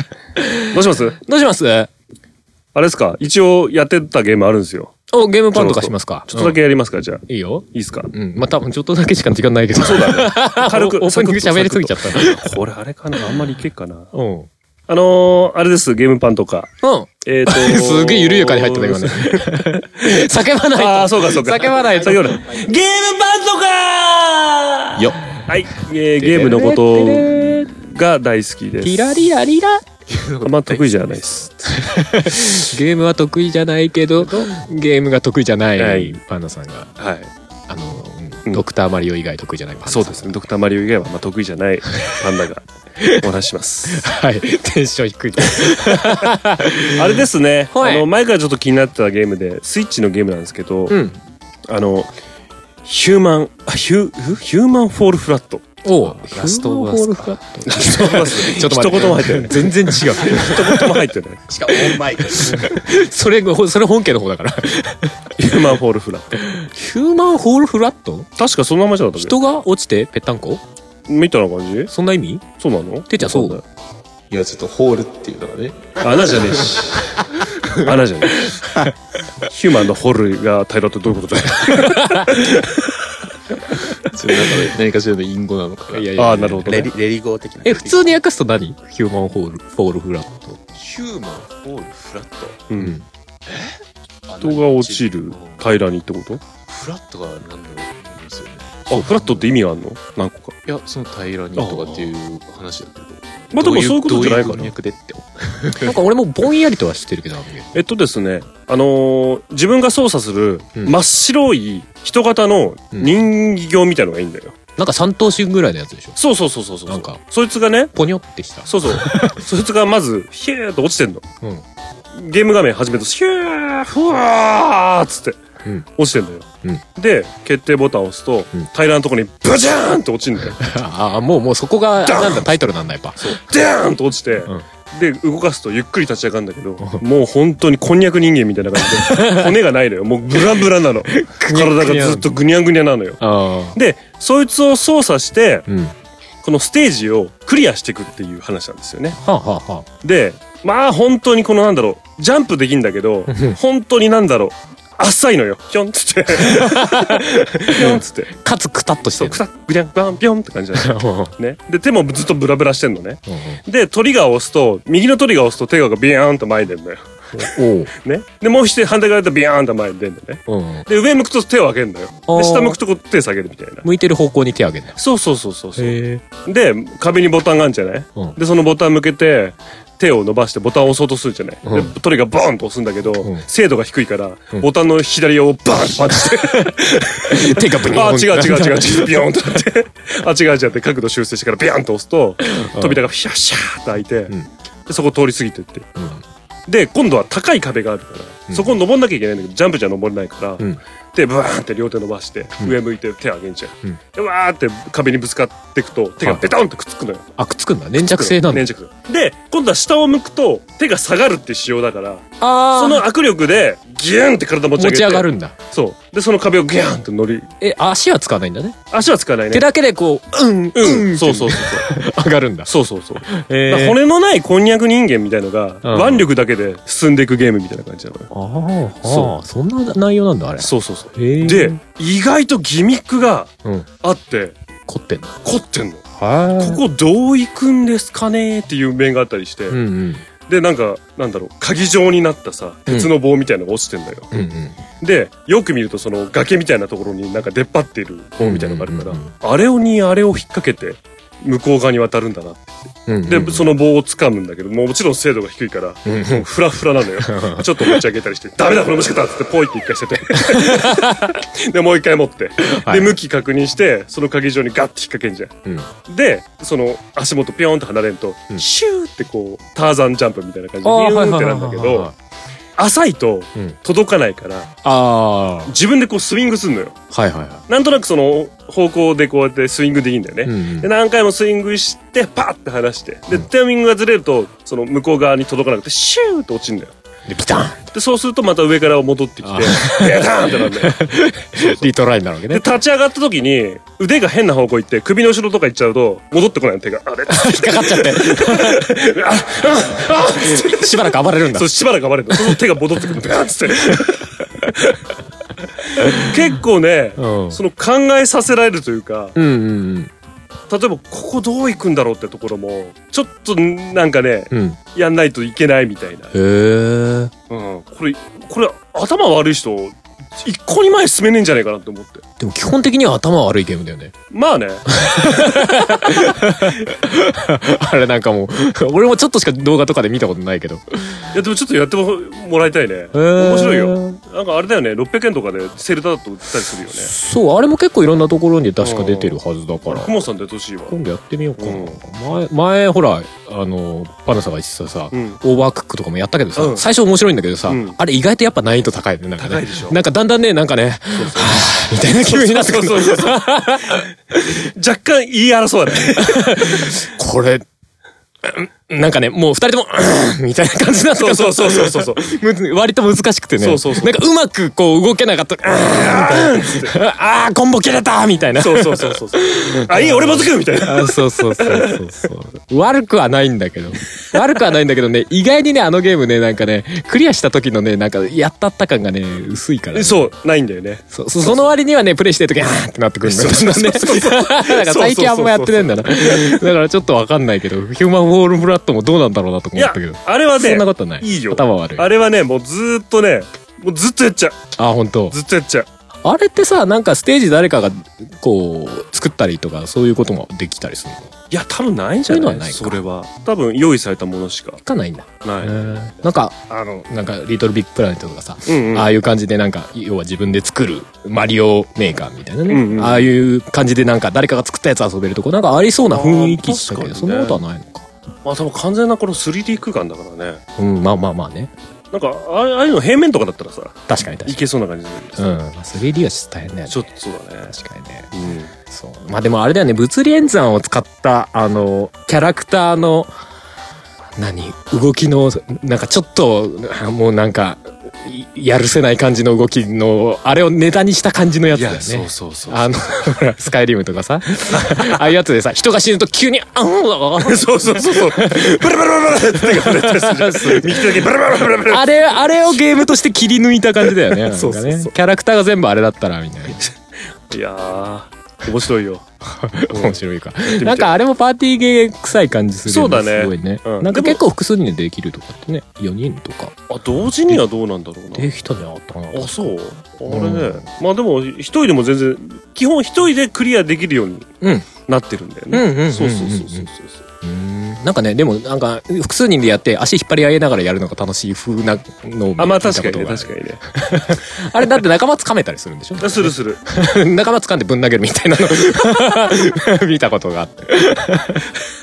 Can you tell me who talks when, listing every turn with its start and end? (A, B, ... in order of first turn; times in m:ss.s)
0:00.4-0:00.6 A
0:00.7-0:01.2 B
0:01.2-0:01.9 A
0:02.7-0:05.0 B
0:05.1-0:06.6 A
0:05.5-0:08.1 B
0:07.3-0:12.4 A
0:09.8-0:14.1 B
0:14.1-0:14.5 A
0:14.9-0:19.5 B
0:16.8-0:22.4 A
0:20.7-0:29.1 B
0:26.2-0:27.7 A
0:28.8-0:29.8 A
0:30.1-0:31.2 C
0:30.4-0:31.6 B
0:31.8-0:36.9 A
0:34.2-0:34.5 B
0:35.8-0:36.2 B
0:37.0-0:37.3 B
0:37.7-0:40.4 A
0:39.9-0:44.0 B
0:43.9-0:47.0 A
0:46.9-0:51.0 B
0:47.7-0:48.0 A
0:50.9-0:51.2 A
0:51.7-0:52.1 B
0:52.8-0:55.8 B
0:55.8-1:00.9 A
0:56.2-0:57.3 C
0:57.6-1:01.4 B
1:01.5-1:02.5 D
1:01.9-1:05.2 A
1:05.4-1:06.4 B
1:06.4-1:08.3 A
1:08.4-1:09.4 B
1:09.2-1:10.6 A
1:11.1-1:11.9 B
1:11.9-1:12.4 A
1:12.6-1:13.6 B
1:13.1-1:13.6 A
1:14.3-1:16.8 C
1:16.0-1:17.2 B
1:17.8-1:18.6 B
1:19.5-1:22.7 B
1:21.6-1:22.4 A
1:24.1-1:26.2 C
1:25.9-1:26.9 A
1:26.2-1:26.9 B
1:26.6-1:28.0 D
1:27.6-1:30.6 A
1:30.7-1:32.6 C
1:32.7-1:33.0 B
1:32.8-1:33.0 A
1:33.5-1:35.7 C
1:34.4-1:36.4 B
1:36.6-1:39.5 C
1:38.9-1:40.6 B
1:40.6-1:46.0 C
1:41.6-1:42.1 B
1:43.5-1:44.7 B
1:45.8-1:47.7 A
1:47.7-1:54.6 B
1:54.8-1:56.2 A
1:56.2-1:57.9 B
1:56.9-1:57.2 A
1:57.9-1:59.4 A
1:58.6-2:01.2 B
2:02.1-2:05.4 B
2:06.0-2:10.6 B
2:10.6-2:13.4 A
2:12.0-2:12.5 B
2:13.2-2:25.7 B
2:19.0-2:19.4 A
2:21.1-2:22.3 A
2:23.2-2:23.8 A
2:25.7-2:25.9 A
2:26.4-2:29.2 B
2:29.2-2:29.8 A
2:30.0-2:38.3 B
2:33.3-2:33.6 A
2:36.4-2:39.4 A
2:39.2-2:53.8 B
2:40.8-2:41.3 A
2:43.3-2:43.6 A
2:47.3-2:47.9 A
2:50.5-2:50.8 A
2:52.3-2:52.8 A
2:53.8-2:55.0 A
2:55.0-3:14.3 B
2:55.8-2:56.2 A
3:01.6-3:01.9 A
3:06.2-3:09.3 A
3:12.6-3:13.0 A
3:14.9-3:15.9 B
3:16.0-3:16.2 A
3:16.7-3:27.3 B
3:26.2-3:26.5 A
3:27.4-3:28.7 A
3:28.0-3:37.5 B
3:32.4-3:33.0 A
3:34.8-3:35.5 A
3:37.6-3:38.8 A
3:38.9-3:39.6 B
3:39.5-3:42.7 A
3:40.7-3:41.9 B
3:42.7-3:48.3 B
3:43.3-3:44.0 A
3:45.8-3:46.3 A
3:48.3-3:51.8 A
3:49.0-3:49.3 B
3:50.6-3:54.5 B
3:54.9-3:55.3 A
3:55.4-3:56.0 B
3:56.2-3:56.8 A
3:56.6-3:59.8 B
3:59.7-4:00.2 A
4:00.5-4:04.3 B
4:04.3-4:04.8 A
4:05.0-4:25.5 B
4:08.4-4:09.3 A
4:13.1-4:13.7 A
4:16.0-4:16.4 A
4:17.2-4:18.0 A
4:20.5-4:21.3 A
4:22.7-4:23.2 A
4:26.0-4:32.1 B
4:30.8-4:32.1 A
4:32.8-4:34.7 B
4:34.8-4:35.7 A
4:35.7-4:37.0 B
4:37.1-4:37.6 A
4:37.7-4:46.9 B
4:40.4-4:40.9 A
4:47.3-4:47.8 A
4:47.9-4:51.9 B
4:49.4-4:52.6 A
4:52.5-5:04.9 B
4:57.3-4:58.9 A
5:00.0-5:01.7 A
5:06.0-5:09.4 B
5:06.0-5:06.2 A
5:07.2-5:07.6 A
5:09.4-5:10.1 A
5:10.7-5:16.3 B
5:14.5-5:14.8 A
5:16.3-5:17.3 A
5:17.5-5:22.2 B
5:22.4-5:24.1 A
5:24.3-5:24.8 B
5:24.9-5:31.2 A
5:31.3-5:37.1 B
5:33.1-5:34.2 A
5:36.9-5:40.1 A
5:38.8-5:41.0 B
5:40.9-5:54.0 A
5:41.6-5:42.0 B
5:45.1-5:45.4 B
5:46.6-5:46.8 B
5:47.7-5:48.0 B
5:49.4-5:50.0 B
5:51.1-5:54.0 B
5:54.6-5:57.0 B
5:56.2-5:57.6 A
5:58.4-6:20.3 A
6:01.2-6:02.2 B
6:03.6-6:04.2 B
6:05.9-6:06.9 B
6:08.6-6:12.0 B
6:19.9-6:21.7 B
6:21.1-6:32.1 A
6:23.2-6:26.6 B
6:29.8-6:34.7 B
6:34.8-6:35.4 A
6:35.3-6:35.9 B
6:36.2-6:41.3 A
6:41.5-6:44.8 B
6:42.3-6:43.0 A
6:44.8-6:58.1 A
6:45.4-6:46.3 B
6:48.7-6:49.1 B
6:52.7-6:53.3 B
6:56.1-6:57.6 B
6:58.4-7:00.6 B
7:00.8-7:01.7 A
7:02.1-7:05.6 B
7:04.1-7:04.6 A
7:05.4-7:07.0 A
7:06.9-7:07.7 B
7:07.7-7:08.3 A
7:08.3-7:08.7 B
7:08.9-7:13.3 A
7:14.4-7:31.2 A
7:21.7-7:22.8 B
7:24.7-7:25.2 B
7:27.4-7:32.0 B
7:31.9-7:36.8 A
7:34.3-7:35.1 B
7:37.5-7:39.2 B
7:39.4-7:46.7 A
7:39.9-7:40.2 B
7:40.7-7:41.1 B
7:42.8-7:44.4 B
7:46.9-7:48.5 B
7:48.3-7:49.7 A
7:49.3-7:54.5 B
7:50.3-7:50.8 A
7:54.6-7:54.9 A
7:55.0-7:57.2 B
7:55.7-7:56.9 A
7:57.4-8:11.7 A
8:02.6-8:03.8 B
8:06.2-8:06.8 B